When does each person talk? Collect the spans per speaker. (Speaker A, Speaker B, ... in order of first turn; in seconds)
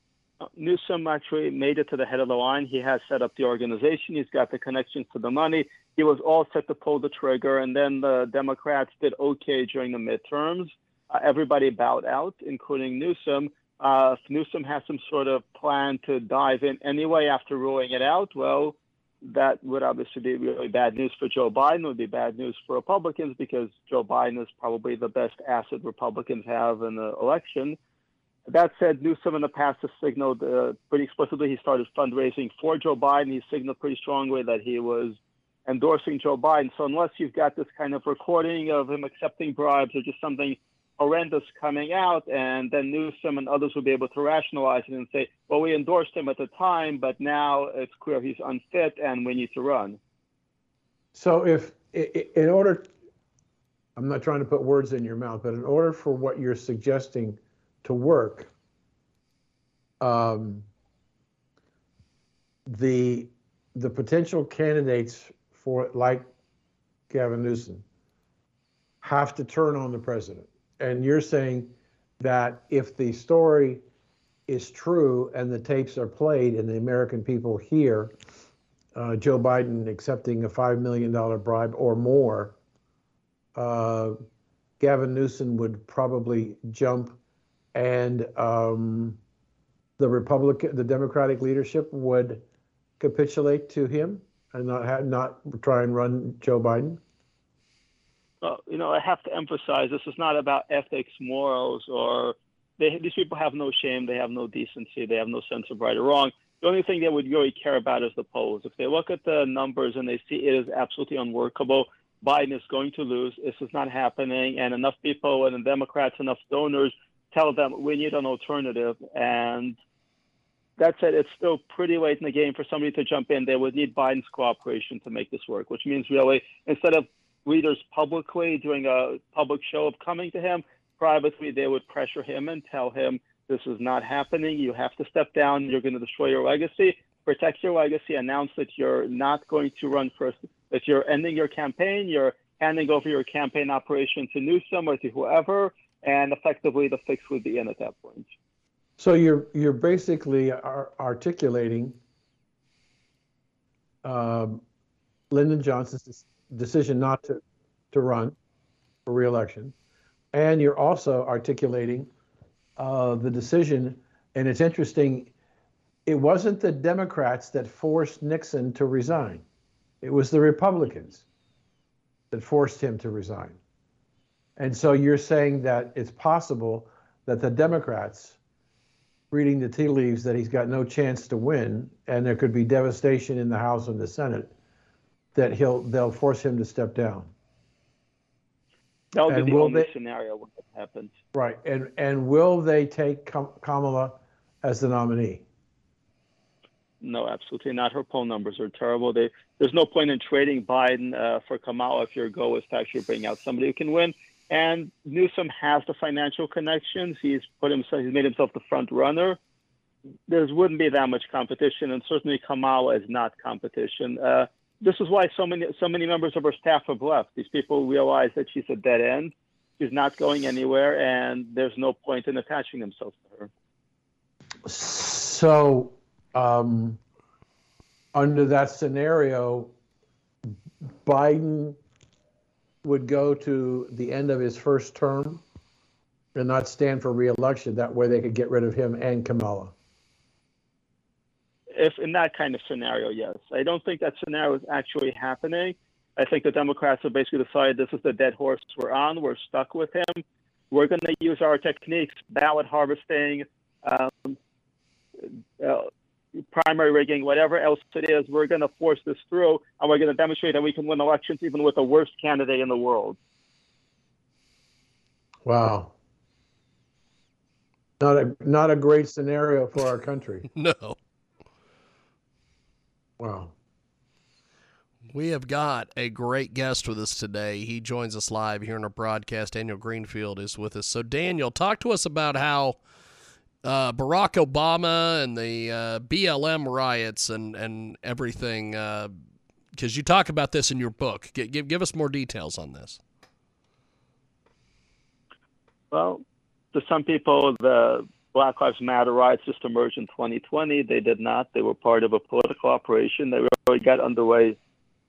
Speaker A: 0.4-27.8, 28.5-50.0, 98.4-119.8, 120.8-148.3, 189.1-191.1, 197.0-209.4, 210.3-223.5, 241.7-254.4, 255.6-255.9, 256.5-263.2, 295.9-296.2, 296.7-304.6
Speaker B: 51.1-52.9, 54.0-58.5, 60.0-60.7, 62.7-66.3, 67.1-67.8, 69.0-73.8, 74.5-78.2, 78.9-82.6, 83.6-84.2, 84.8-87.2, 87.7-89.2, 90.0-92.4, 93.0-97.0, 149.0-152.0, 154.0-154.6, 155.3-158.4, 159.1-159.7, 160.3-162.1, 162.8-165.3, 166.1-169.4, 170.0-171.2, 172.3-173.6, 174.6-178.4, 179.3-184.5, 185.3-187.3, 189.3-189.9, 191.3-195.4, 224.7-227.0, 228.1-229.7, 231.0-231.8, 232.8-235.4, 236.3-239.7, 265.4-265.9, 268.0-270.5, 273.2-273.5
Speaker C: 270.5-271.0, 275.1-282.8, 283.6-289.1, 289.8-293.0